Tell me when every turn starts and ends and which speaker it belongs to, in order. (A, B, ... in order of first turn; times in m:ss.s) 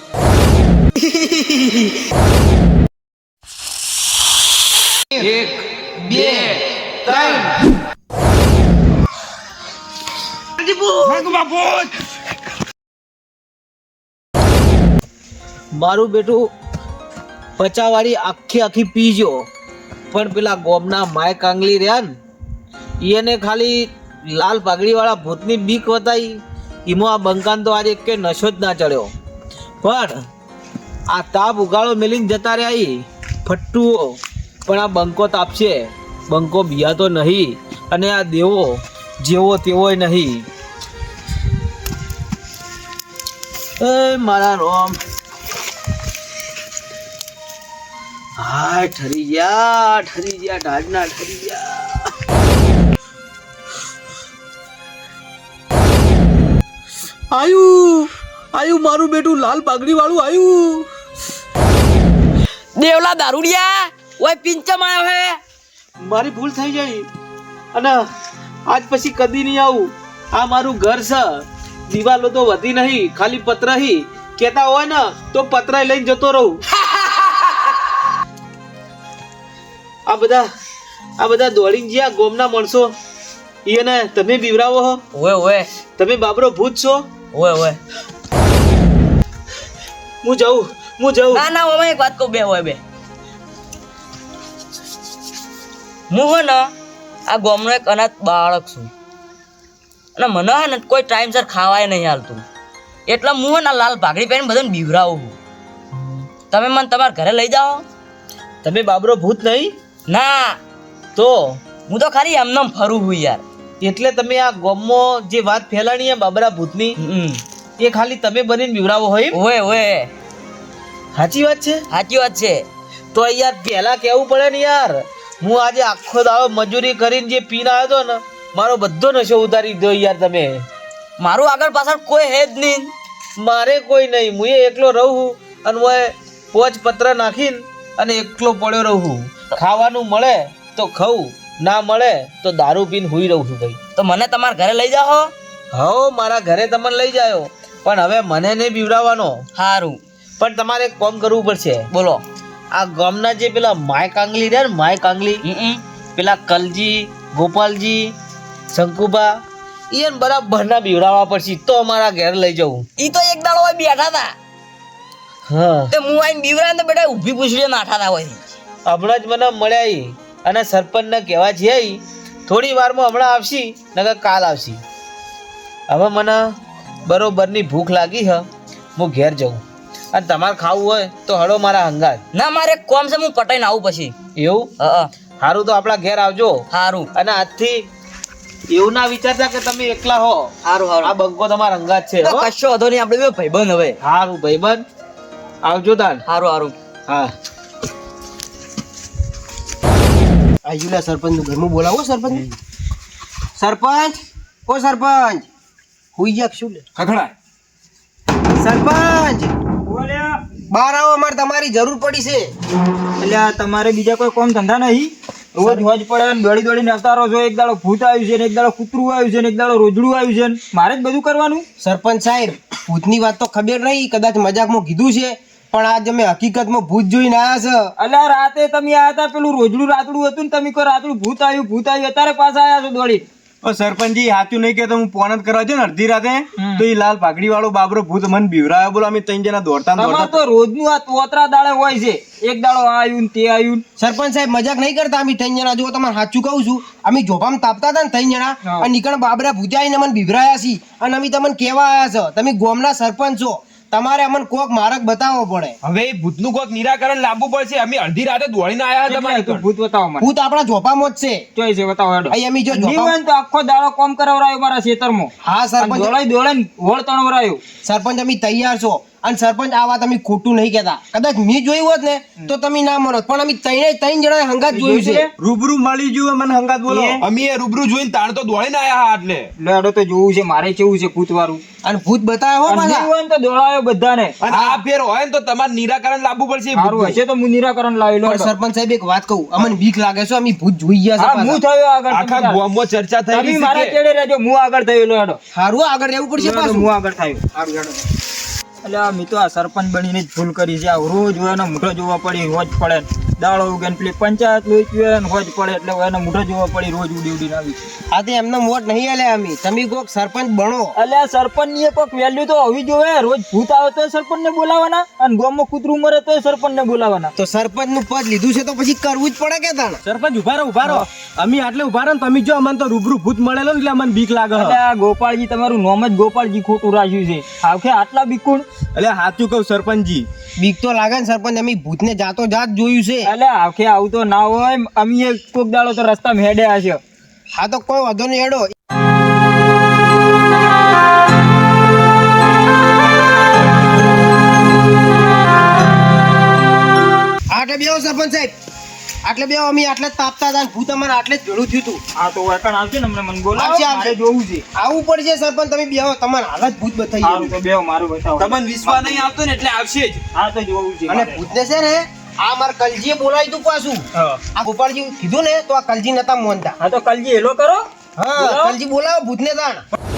0:01.0-0:01.8 A
0:05.2-0:07.4 B
0:06.1-0:07.5 C
0:10.6-0:11.3 C
0:11.0-0:12.0 B
0:15.7-0:16.5 C
0:17.6-0:19.4 C
0:20.1-0:22.1 C
0:23.0-0:29.1 C
0:29.8-0:30.2 C
0:31.1-0:40.4 C
0:43.8-0:45.0 C
0:48.4-0:52.1 C
0:57.3-1:00.9 C
1:02.8-1:05.4 A
1:06.0-1:07.0 C
1:07.7-1:08.0 C
1:08.7-1:16.6 C
1:20.1-1:20.5 C
1:21.2-1:22.9 C
1:23.6-1:25.0 C
1:25.1-1:25.7 A
1:26.0-1:27.0 C
1:27.3-1:27.8 A
1:30.2-1:31.4 C
1:31.3-1:32.8 A
1:36.1-1:36.7 A
1:37.3-1:38.9 A
1:40.2-1:42.4 A
1:43.1-1:45.3 A
1:46.5-1:47.8 A
1:48.6-1:49.7 C
1:50.1-1:50.6 A
1:51.2-1:51.6 C
1:51.9-1:53.4 A
1:53.8-1:57.0 C
1:57.0-1:57.4 A
1:57.8-1:59.4 C
1:59.3-2:00.1 A
2:01.1-2:01.8 C
2:01.9-2:02.6 A
2:03.1-2:10.6 C
2:11.2-2:12.9 A
2:13.4-2:23.8 C
2:24.0-2:25.3 A
2:25.7-2:29.4 C
2:29.6-2:30.0 A
2:30.4-2:31.9 C
2:31.9-2:32.2 A
2:32.7-2:35.4 C
2:35.4-2:35.8 A
2:36.2-2:38.1 C
2:38.7-2:39.4 C
2:39.9-2:42.8 C
2:43.0-2:44.3 A
2:45.5-2:45.9 C
2:45.9-2:48.6 A
2:48.8-2:54.8 C
2:55.9-2:56.4 C
2:57.0-2:58.4 C
2:59.0-2:59.6 C
3:00.1-3:02.2 C
3:02.3-3:04.2 A
3:04.4-3:04.7 C
3:04.8-3:05.1 A
3:05.4-3:07.8 C
3:06.7-3:07.1 A
3:08.7-3:10.5 C
3:10.6-3:11.1 A
3:11.0-3:12.5 C
3:12.2-3:14.0 A
3:14.0-3:14.8 C
3:15.6-3:16.2 C
3:16.2-3:16.7 A
3:17.1-3:17.3 C
3:20.6-3:22.4 D
3:23.6-3:25.5 D
3:26.1-3:26.8 D
3:27.0-3:27.3 B
3:28.6-3:29.5 D
3:29.9-3:30.4 E
3:30.7-3:32.5 D
3:33.2-3:41.6 E
3:41.8-3:47.9 D
3:48.0-3:53.2 E
3:53.6-4:00.4 F
3:56.6-3:56.8 E
4:00.0-4:03.8 E
4:04.0-4:15.8 D
4:08.6-4:08.9 E
4:15.8-4:19.6 B
4:19.1-4:20.3 E
4:20.2-4:21.4 D
4:21.6-4:27.6 E
4:22.3-4:23.2 D
4:25.4-4:26.1 D
4:27.8-4:35.3 D
4:34.7-4:35.3 E
4:35.4-4:37.2 F
4:36.9-4:37.2 E
4:37.2-4:39.5 B
4:39.6-4:41.6 E
4:41.8-4:43.1 D
4:42.7-4:44.4 E
4:44.4-4:44.8 F
4:44.5-4:47.2 B
4:46.7-4:48.5 E
4:48.2-4:51.6 D
4:51.2-4:52.6 E
4:52.1-4:54.0 B
4:53.3-4:55.4 E
4:55.5-4:56.9 D
4:56.4-4:57.4 E
4:57.5-4:58.1 D
4:58.8-5:07.8 E
5:08.1-5:10.9 D
5:11.0-5:17.3 E
5:17.4-5:20.0 D
5:20.0-5:24.8 F
5:24.5-5:28.6 E
5:28.9-5:30.3 F
5:30.6-5:33.3 D
5:33.2-5:37.0 E
5:37.5-5:38.7 D
5:47.5-5:48.5 D
5:49.2-5:52.0 D
5:52.2-5:54.6 E
5:53.5-5:54.1 D
5:54.7-5:57.5 D
5:57.2-5:58.6 E
5:58.4-6:00.2 B
5:58.8-5:59.3 D
6:00.3-6:01.4 E
6:01.1-6:06.8 D
6:06.8-6:07.8 E
6:08.2-6:09.8 D
6:08.4-6:08.8 E